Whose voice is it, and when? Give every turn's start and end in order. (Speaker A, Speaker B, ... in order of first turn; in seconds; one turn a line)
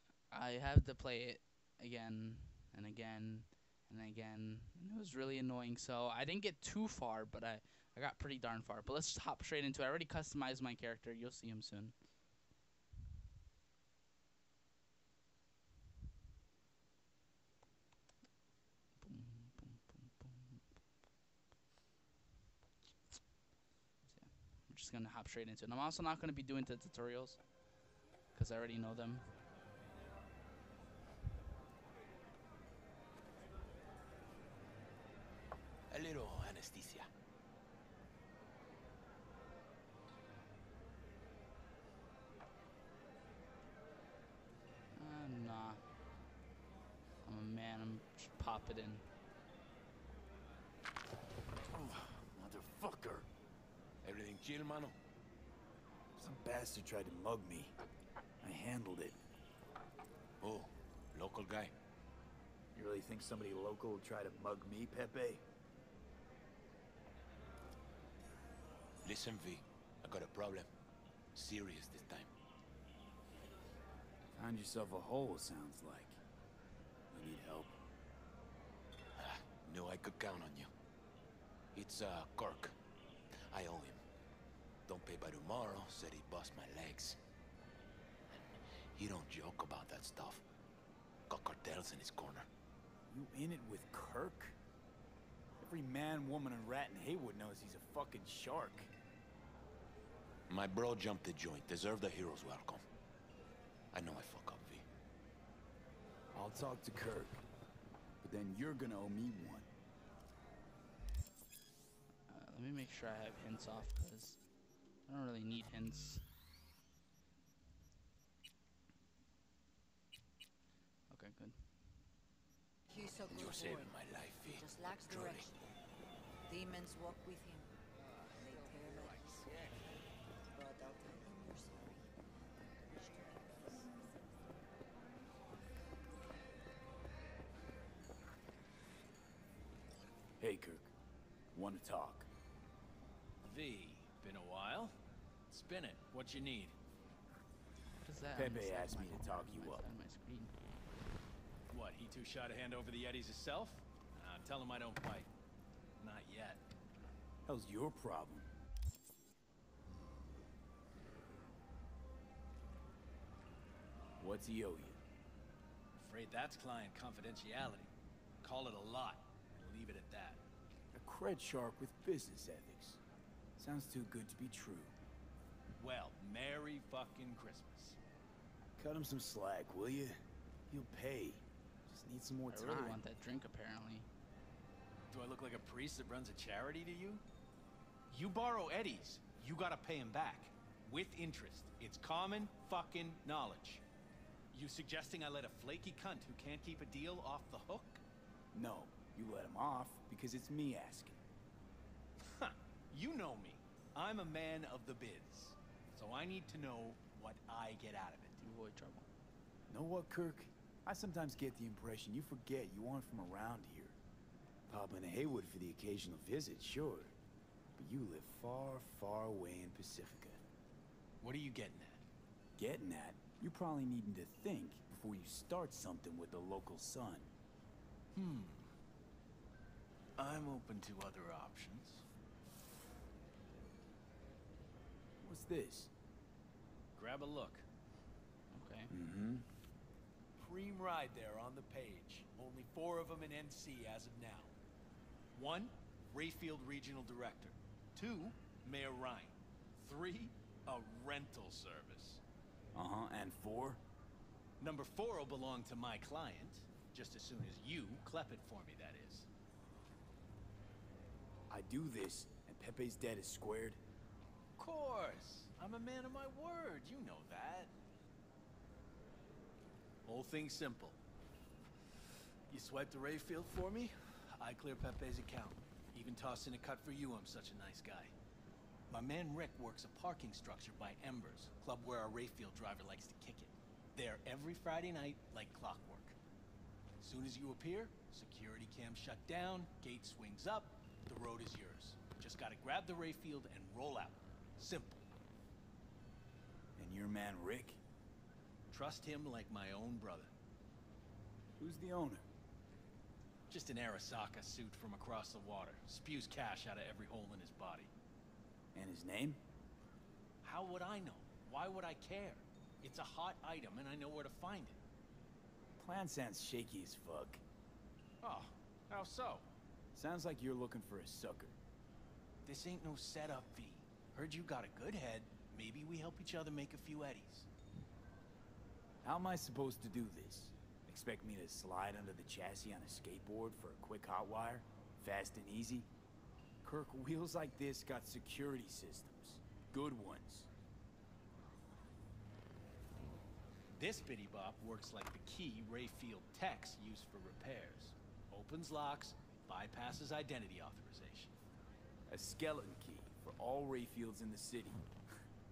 Speaker A: 0.3-11.9
Speaker A: 19.0-20.6
Speaker A: 24.1-27.6
Speaker A: 28.3-29.2
Speaker B: 35.9-37.1
Speaker A: 44.9-45.8
Speaker A: 47.2-49.0
Speaker B: 51.7-53.2
Speaker B: 54.0-54.9
Speaker C: 56.2-57.7
Speaker C: 58.4-59.2
Speaker B: 60.4-61.7
Speaker C: 62.7-65.4
Speaker B: 69.0-70.7
Speaker B: 71.3-72.3
Speaker C: 74.4-76.2
Speaker C: 77.1-77.8
Speaker B: 79.2-80.7
Speaker B: 81.7-82.8
Speaker B: 83.5-84.0
Speaker B: 84.9-87.2
Speaker B: 88.9-90.4
Speaker B: 91.3-92.5
Speaker C: 93.1-94.6
Speaker C: 95.6-98.9
Speaker B: 100.5-102.8
Speaker B: 103.9-104.8
Speaker C: 106.3-107.4
Speaker C: 108.2-109.7
Speaker A: 112.3-114.4
Speaker A: 115.0-116.2
Speaker A: 121.1-121.7
Speaker D: 122.9-125.5
Speaker B: 123.3-125.5
Speaker D: 126.5-129.8
Speaker E: 128.7-129.4
Speaker D: 130.5-132.1
Speaker D: 132.6-133.9
Speaker C: 140.4-140.9
Speaker C: 141.5-142.3
Speaker E: 143.4-144.9
Speaker E: 145.5-146.7
Speaker A: 148.0-150.5
Speaker C: 148.3-149.8
Speaker E: 151.7-155.3
Speaker E: 156.0-156.6
Speaker C: 157.4-158.5
Speaker C: 164.2-165.0
Speaker E: 166.0-167.9
Speaker E: 168.4-170.4
Speaker C: 170.9-173.0
Speaker C: 173.6-174.9
Speaker E: 175.8-178.0
Speaker C: 178.8-183.0
Speaker A: 182.5-184.1
Speaker E: 185.1-187.2
Speaker E: 188.1-193.8
Speaker E: 194.5-198.0
Speaker C: 198.5-201.2
Speaker E: 202.2-208.4
Speaker A: 208.4-209.1
Speaker C: 209.7-214.0
Speaker C: 214.7-217.1
Speaker C: 217.8-220.4
Speaker E: 221.2-222.0
Speaker C: 222.6-227.3
Speaker E: 228.1-228.7
Speaker E: 230.2-232.0
Speaker C: 235.2-235.9
Speaker E: 236.9-237.7
Speaker A: 238.5-238.9
Speaker C: 238.9-239.4
Speaker E: 240.4-244.5
Speaker E: 245.3-252.2
Speaker C: 252.7-253.8
Speaker E: 254.6-259.3
Speaker C: 261.5-263.8
Speaker E: 264.6-267.7
Speaker E: 270.1-271.0
Speaker E: 272.5-278.1
Speaker E: 278.9-286.1
Speaker E: 287.0-295.0
Speaker C: 296.8-297.8
Speaker E: 298.7-300.3
Speaker C: 301.6-302.3
Speaker E: 303.5-307.9
Speaker C: 308.7-309.4
Speaker E: 310.4-314.8
Speaker C: 315.8-317.4
Speaker E: 318.2-319.5
Speaker C: 319.9-321.6
Speaker E: 322.4-327.5
Speaker C: 329.0-335.9
Speaker C: 336.6-340.5
Speaker E: 343.8-351.3
Speaker C: 352.1-354.9